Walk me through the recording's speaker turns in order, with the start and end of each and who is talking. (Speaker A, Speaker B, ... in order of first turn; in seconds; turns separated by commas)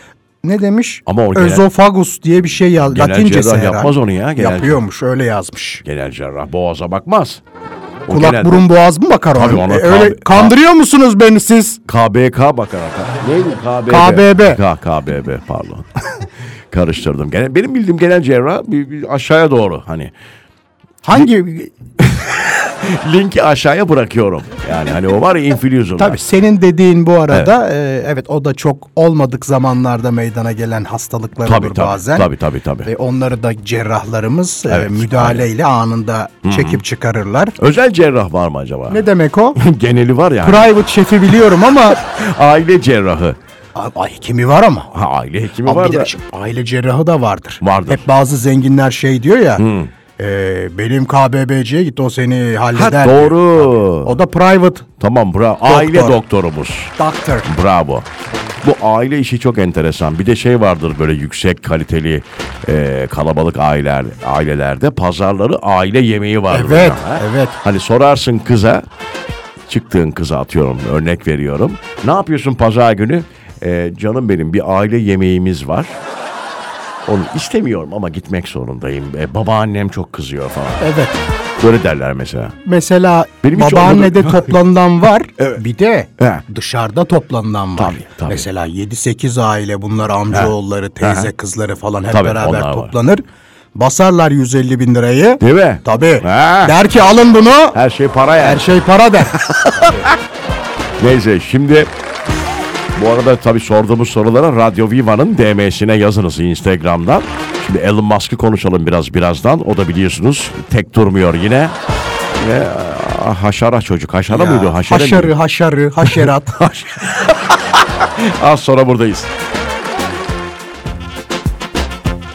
Speaker A: 0.4-5.8, Speaker B: 1.1-1.7, Speaker B: 2.9-4.8, Speaker B: 5.8-7.4, Speaker B: 8.1-8.7, Speaker A: 8.1-11.8, Speaker B: 9.3-10.6, Speaker B: 11.9-20.1, Speaker A: 13.9-14.6, Speaker A: 21.0-21.7, Speaker B: 22.0-26.2, Speaker A: 26.0-32.3, Speaker B: 31.4-32.9, Speaker A: 32.9-37.6, Speaker B: 34.7-35.5, Speaker B: 36.4-36.8, Speaker B: 37.6-40.7, Speaker A: 38.9-39.6, Speaker A: 40.4-42.0, Speaker B: 41.9-43.4, Speaker A: 43.8-44.9, Speaker B: 44.9-46.1, Speaker A: 45.6-49.7, Speaker B: 47.6-48.1, Speaker B: 49.6-49.9, Speaker A: 50.2-54.9, Speaker B: 52.7-54.2, Speaker B: 55.0-58.1, Speaker A: 55.6-56.2, Speaker A: 57.0-57.5, Speaker B: 58.6-68.9, Speaker A: 66.5-67.6, Speaker B: 69.7-76.0, Speaker B: 77.0-80.9, Speaker A: 80.8-81.2, Speaker B: 81.6-82.5, Speaker A: 82.6-93.2, Speaker B: 83.4-84.6, Speaker B: 86.2-86.4, Speaker B: 87.8-88.5, Speaker B: 90.3-91.3, Speaker B: 92.1-92.9, Speaker A: 93.8-97.8, Speaker B: 95.4-96.8, Speaker B: 97.7-98.7, Speaker A: 98.4-100.1, Speaker B: 99.4-100.1, Speaker B: 101.0-101.9, Speaker B: 103.0-111.8, Speaker B: 112.4-115.3, Speaker A: 114.3-117.0, Speaker B: 116.0-116.3, Speaker B: 117.0-119.3